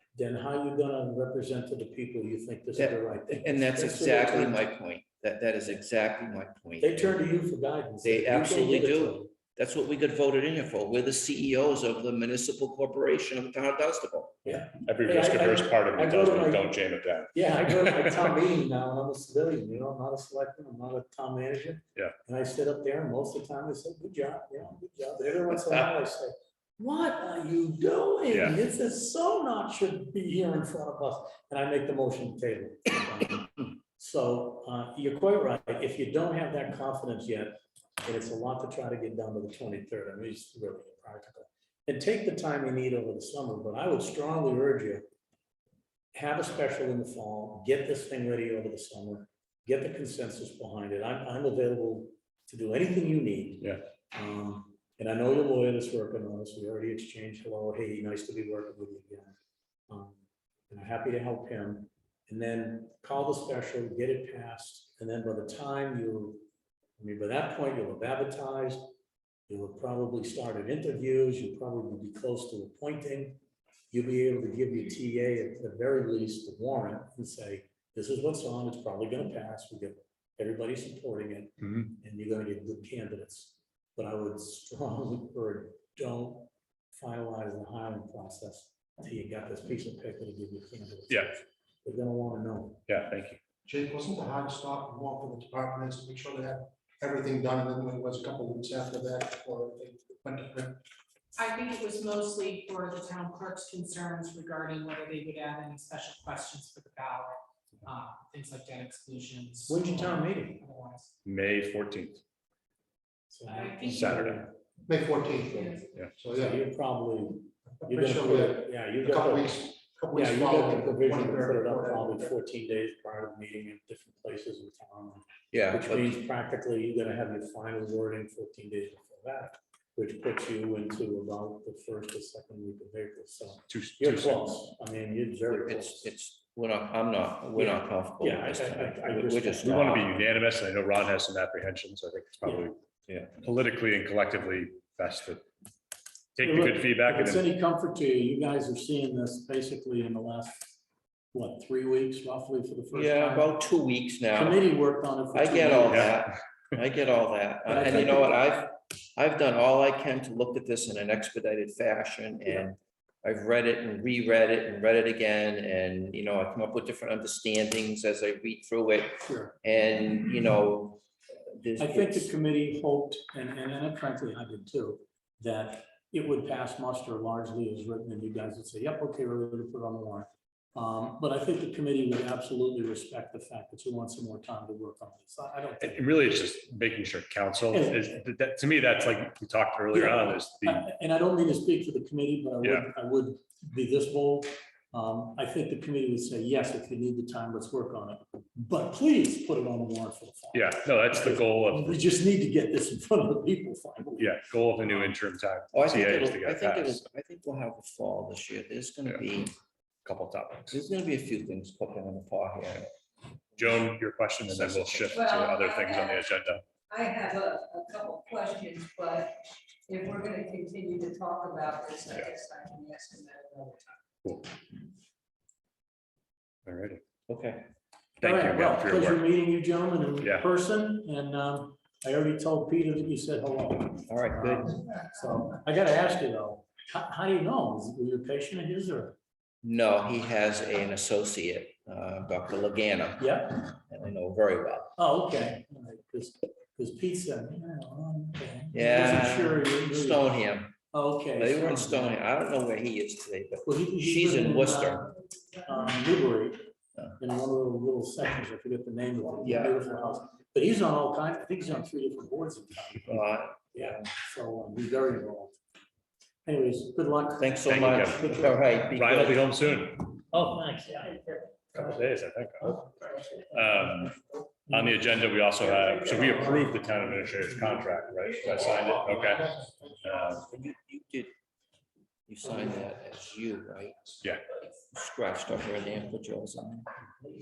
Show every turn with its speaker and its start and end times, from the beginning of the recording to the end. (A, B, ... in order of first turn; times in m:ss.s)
0:00.2-0:04.6 A
0:02.8-0:07.2 B
0:06.8-0:09.3 A
0:08.0-0:14.4 B
0:14.4-0:16.8 A
0:14.8-0:18.3 C
0:17.3-0:45.0 A
0:28.3-0:28.6 C
0:46.1-0:59.3 A
0:59.9-1:00.2 A
1:00.7-1:06.4 A
1:07.0-1:08.9 A
1:09.5-1:13.4 A
1:13.9-1:32.8 A
1:32.9-1:33.4 C
1:33.7-1:40.8 D
1:41.4-1:51.1 E
1:49.7-1:50.6 A
1:51.2-1:52.2 C
1:53.3-1:54.5 A
1:53.5-1:54.4 E
1:53.8-1:54.4 C
1:54.8-1:56.6 D
1:55.4-1:55.8 E
1:56.3-2:16.1 A
1:57.8-2:02.3 D
2:05.5-2:06.2 B
2:13.7-2:14.5 C
2:15.5-2:20.3 B
2:17.6-2:19.9 A
2:19.6-2:22.8 C
2:23.4-2:25.4 C
2:26.4-2:27.5 C
2:26.4-2:30.8 A
2:31.3-2:33.5 A
2:32.9-2:34.6 B
2:34.3-2:36.1 A
2:35.3-2:52.3 B
2:37.7-2:38.4 A
2:49.2-2:49.6 A
2:51.8-3:06.4 A
3:05.8-3:10.8 C
3:07.7-3:08.0 A
3:09.9-3:24.4 A
3:12.6-3:12.9 C
3:20.5-3:22.0 C
3:24.2-3:27.0 C
3:25.7-3:29.5 B
3:30.0-3:30.8 C
3:30.7-3:32.9 B
3:33.6-3:36.6 C
3:34.5-3:35.3 B
3:37.6-3:39.3 F
3:39.9-3:42.3 F
3:42.0-3:42.3 C
3:43.7-3:43.9 F
3:44.2-3:44.5 C
3:46.7-3:47.0 C
3:47.3-3:47.7 B
3:48.2-3:49.2 C
3:48.2-3:59.2 A
3:54.1-3:54.8 B
3:59.6-4:04.9 B
4:03.2-4:03.6 A
4:05.0-4:10.4 A
4:08.7-4:10.8 B
4:10.9-4:12.2 A
4:11.4-4:15.1 B
4:13.6-4:25.6 A
4:19.4-4:19.8 B
4:23.1-4:24.1 B
4:26.5-4:28.6 A
4:27.4-4:29.5 B
4:27.7-4:28.3 C
4:28.9-4:30.2 C
4:30.3-4:31.4 A
4:31.7-4:32.8 C
4:33.5-4:34.2 C
4:34.7-4:39.5 C
4:40.0-4:40.4 C
4:40.3-4:41.3 B
4:42.3-4:44.2 B
4:44.9-4:46.9 B